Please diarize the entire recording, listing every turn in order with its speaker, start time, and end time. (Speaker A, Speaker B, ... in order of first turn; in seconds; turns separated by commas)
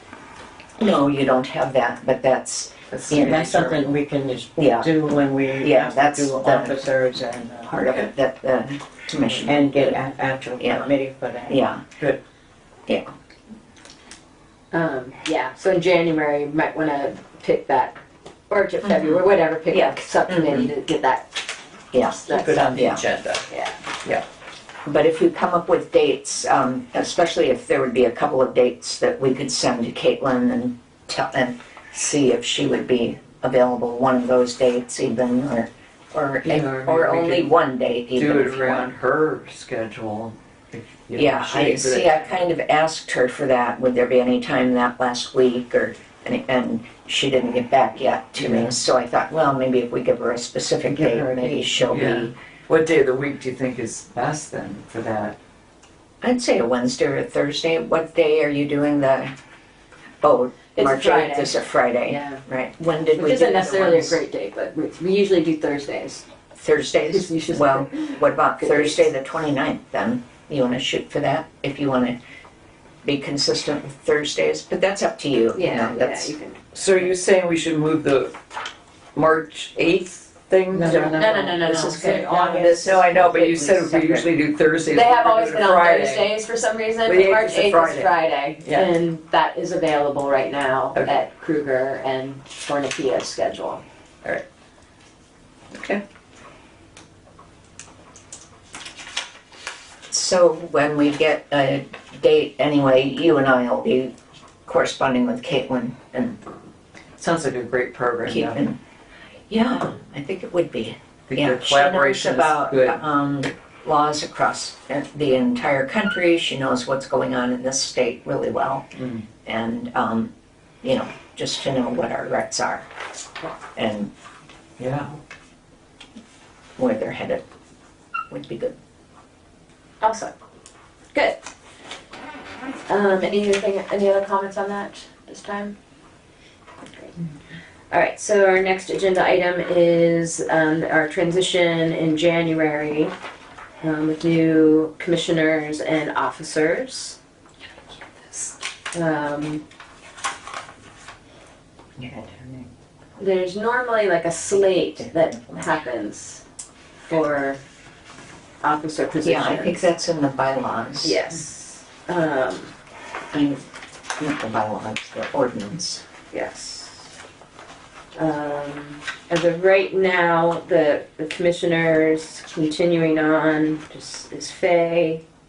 Speaker A: 0.8-3.5, Speaker B: 2.9-3.9, Speaker C: 3.1-7.7, Speaker A: 4.6-4.9, Speaker A: 5.6-6.8, Speaker A: 7.6-10.0, Speaker B: 7.8-8.1, Speaker C: 9.4-11.6, Speaker A: 10.6-10.9, Speaker A: 11.5-11.8, Speaker D: 14.7-21.4, Speaker A: 18.8-20.7, Speaker A: 21.9-23.0, Speaker D: 22.1-22.7, Speaker B: 22.2-23.4, Speaker D: 23.5-23.8, Speaker A: 24.8-38.9, Speaker B: 36.5-37.5, Speaker B: 38.1-42.3, Speaker A: 41.2-52.3, Speaker B: 48.4-48.8, Speaker C: 50.9-52.1, Speaker B: 51.9-55.4, Speaker A: 56.2-59.3, Speaker A: 60.2-64.2, Speaker D: 60.7-62.4, Speaker D: 63.1-66.2, Speaker A: 66.5-72.2, Speaker D: 66.9-69.1, Speaker A: 73.0-76.3, Speaker D: 75.5-76.8, Speaker B: 76.7-78.3, Speaker B: 79.1-81.2, Speaker C: 80.7-82.8, Speaker D: 80.9-82.9, Speaker A: 81.6-84.3, Speaker B: 82.6-86.3, Speaker D: 84.9-93.8, Speaker B: 87.0-88.1, Speaker B: 88.6-88.9, Speaker B: 90.9-91.2, Speaker B: 95.7-96.0, Speaker A: 100.1-104.1, Speaker A: 104.7-106.4, Speaker B: 107.2-108.6, Speaker A: 108.2-108.8, Speaker A: 109.5-118.9, Speaker B: 111.3-113.0, Speaker B: 119.0-119.2, Speaker A: 119.4-120.3, Speaker A: 120.8-122.9, Speaker A: 123.8-124.1, Speaker B: 124.8-125.1, Speaker A: 126.8-127.4, Speaker A: 128.3-128.8, Speaker D: 130.0-130.3, Speaker D: 131.1-131.5, Speaker D: 132.9-135.8, Speaker D: 137.9-143.1, Speaker D: 143.8-147.2, Speaker D: 148.9-149.6, Speaker A: 152.0-152.7, Speaker D: 153.2-156.4, Speaker A: 154.5-155.7, Speaker D: 157.1-157.6, Speaker D: 158.6-159.8, Speaker A: 159.2-161.3, Speaker D: 161.0-162.7, Speaker A: 163.3-163.6, Speaker A: 164.2-166.0, Speaker D: 166.3-167.1, Speaker D: 168.2-175.2